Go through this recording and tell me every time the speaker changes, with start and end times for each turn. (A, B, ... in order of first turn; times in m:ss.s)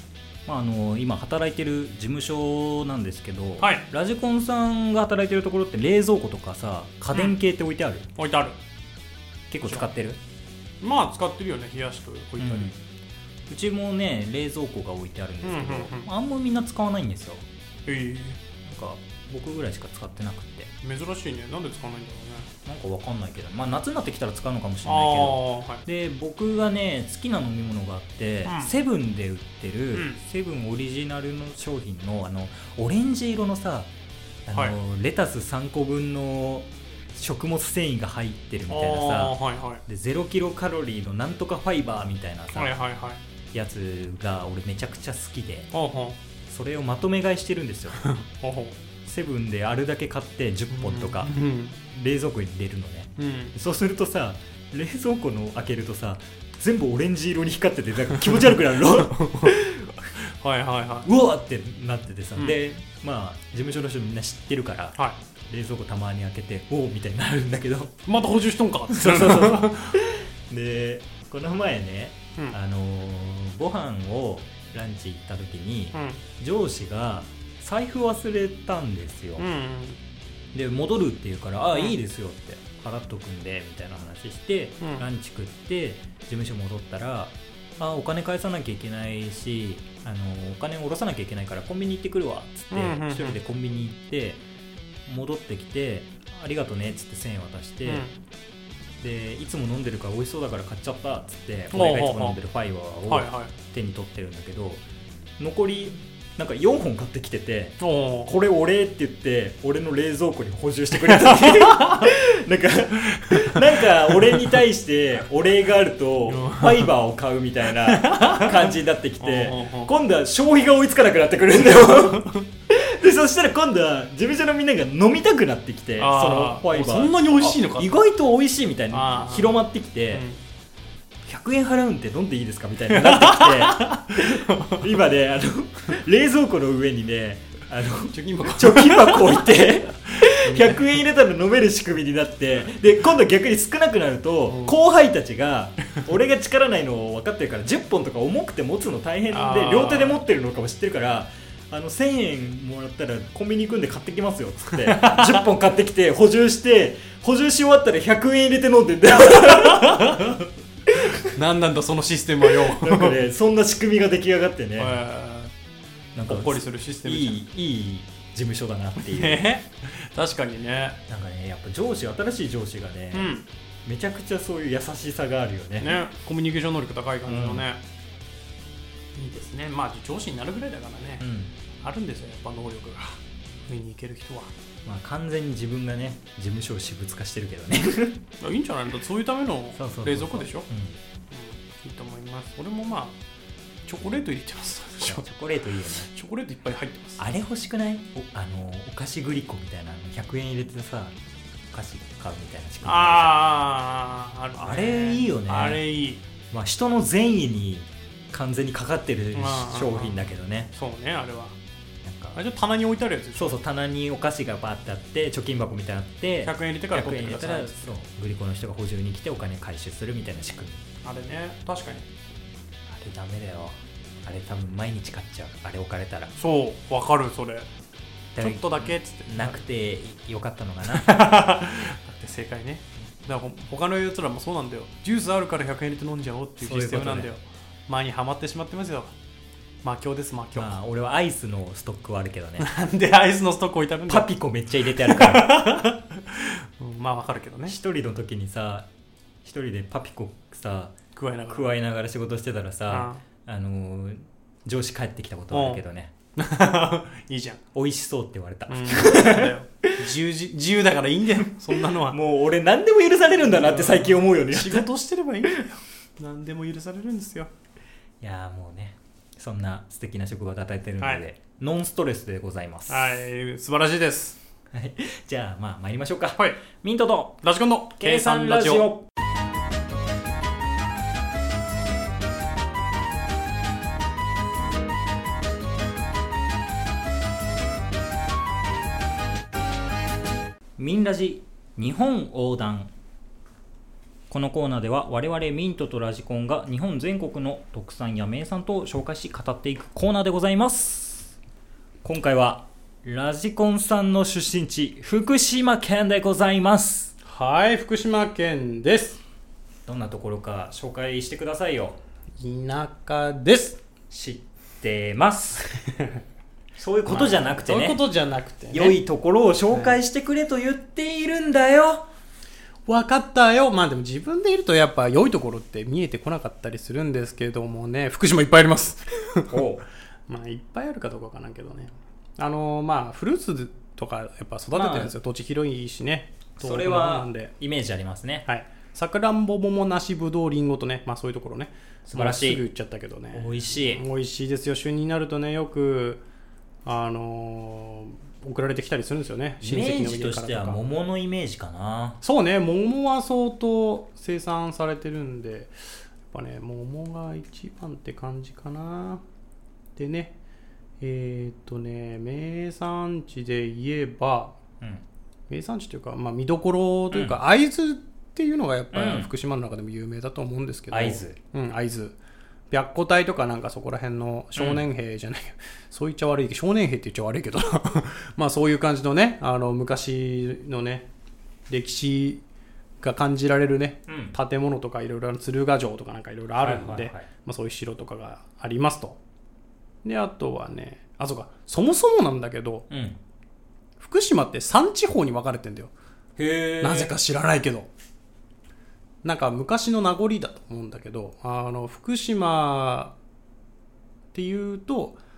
0:00.4-0:08.1 A
0:03.6-0:03.8 B
0:08.2-0:08.6 B
0:09.5-0:10.2 A
0:10.8-0:12.7 B
0:12.4-0:12.8 A
0:13.5-0:17.4 A
0:15.4-0:16.1 B
0:17.8-0:18.4 B
0:18.6-0:20.7 A
0:20.8-0:22.5 B
0:22.6-0:33.9 A
0:24.8-0:25.8 B
0:28.4-0:28.7 B
0:29.9-0:30.2 B
0:34.4-0:42.8 A
0:38.7-0:39.8 B
0:42.5-0:43.2 B
0:43.5-0:45.7 A
0:45.7-0:46.2 B
0:46.4-0:48.1 A
0:48.0-0:48.8 B
0:49.0-0:51.3 A
0:50.7-0:51.8 B
0:51.9-0:59.9 A
0:53.2-0:53.6 B
0:58.9-0:59.6 B
1:00.2-1:01.1 B
1:01.0-1:08.0 A
1:08.0-1:09.9 B
1:08.9-1:19.4 A
1:15.9-1:16.2 B
1:19.4-1:20.0 B
1:20.5-1:34.4 A
1:24.8-1:25.0 B
1:32.7-1:33.4 B
1:35.0-1:38.0 A
1:37.8-1:38.1 B
1:39.0-1:44.8 A
1:41.7-1:42.4 B
1:43.1-1:43.5 B
1:45.4-2:10.2 A
1:47.8-1:48.3 B
1:51.0-1:52.1 B
1:53.1-1:54.1 B
1:56.3-1:56.9 B
1:57.7-1:59.9 B
2:01.9-2:02.4 B
2:06.0-2:08.0 B
2:08.9-2:09.6 B
2:10.1-2:10.4 B
2:11.2-2:41.3 A
2:12.9-2:14.9 B
2:18.1-2:21.0 B
2:24.5-2:24.8 B
2:29.3-2:30.2 B
2:34.8-2:35.4 B
2:39.3-2:40.4 B
2:41.1-2:43.2 B
2:42.5-2:45.0 A
2:44.8-2:45.5 B
2:46.1-2:49.4 A
2:46.3-2:47.4 B
2:49.0-2:51.0 B
2:51.1-2:53.3 A
2:53.1-2:53.4 B
2:53.8-2:56.0 A
2:55.8-2:57.8 B
2:57.3-2:57.6 A
2:59.1-3:01.2 B
3:01.2-3:01.5 A
3:01.8-3:04.5 B
3:04.8-3:08.2 A
3:08.4-3:10.7 B
3:09.7-3:11.0 A
3:11.3-3:13.2 B
3:13.8-3:15.3 B
3:15.0-3:16.1 A
3:16.0-3:17.2 B
3:17.2-3:21.1 A
3:21.7-3:23.4 A
3:22.8-3:26.2 B
3:24.6-3:25.8 A
3:26.5-3:30.7 A
3:29.3-3:30.2 B
3:30.7-3:31.6 B
3:32.0-3:32.4 A
3:32.3-3:33.6 B
3:33.3-3:40.8 A
3:36.4-3:37.9 B
3:41.0-3:42.0 B
3:42.9-3:46.3 A
3:46.4-3:47.7 B
3:48.3-3:51.2 A
3:48.4-3:49.6 B
3:50.9-3:59.1 B
3:56.6-3:57.3 A
3:59.8-4:00.8 B
4:00.6-4:02.7 A
4:02.6-4:04.3 B
4:04.1-4:05.6 A
4:04.8-4:07.8 B
4:07.6-4:08.9 A
4:09.4-4:11.0 A
4:11.1-4:11.8 B
4:11.5-4:16.1 A
4:12.9-4:13.2 B
4:15.5-4:15.8 B
4:16.4-4:17.6 B
4:17.7-4:20.0 A
4:18.7-4:22.2 B
4:21.8-4:24.9 A
4:23.4-4:27.5 B
4:28.2-4:33.2 A
4:32.9-4:34.4 B
4:34.7-4:37.4 A
4:37.4-4:38.8 B
4:38.0-4:39.0 A
4:50.8-4:52.9 A
4:54.3-5:01.3 A
5:02.0-5:07.1 A
5:07.2-5:09.2 B
5:09.8-5:12.0 A
5:12.4-5:13.8 B
5:14.1-5:15.8 A
5:15.9-5:16.2 B
5:16.8-5:18.0 A
5:17.1-5:19.0 B
5:18.7-5:22.0 A
5:19.7-5:20.0 B
5:22.9-5:29.6 B
5:29.5-5:29.8 A
5:30.3-5:37.5 B
5:34.7-5:35.1 A
5:36.6-5:38.5 A
5:38.4-5:46.2 B
5:42.0-5:42.6 A
5:43.3-5:44.0 A
5:46.8-5:50.8 B
5:49.6-5:52.2 A
5:52.2-5:55.8 B
5:56.3-5:59.2 B
6:00.0-6:00.3 B
6:01.0-6:04.6 B
6:05.5-6:12.2 B
6:07.1-6:07.4 A
6:08.9-6:09.3 A
6:10.9-6:11.4 A
6:12.7-6:21.1 B
6:14.5-6:14.8 A
6:21.7-6:22.4 B
6:23.0-6:29.2 B
6:24.1-6:24.4 A
6:26.6-6:27.3 A
6:30.0-6:32.8 B
6:32.9-6:33.2 A
6:34.0-6:35.9 B
6:36.4-6:37.1 A
6:36.8-6:37.9 B
6:39.2-6:43.1 B
6:44.3-6:45.2 B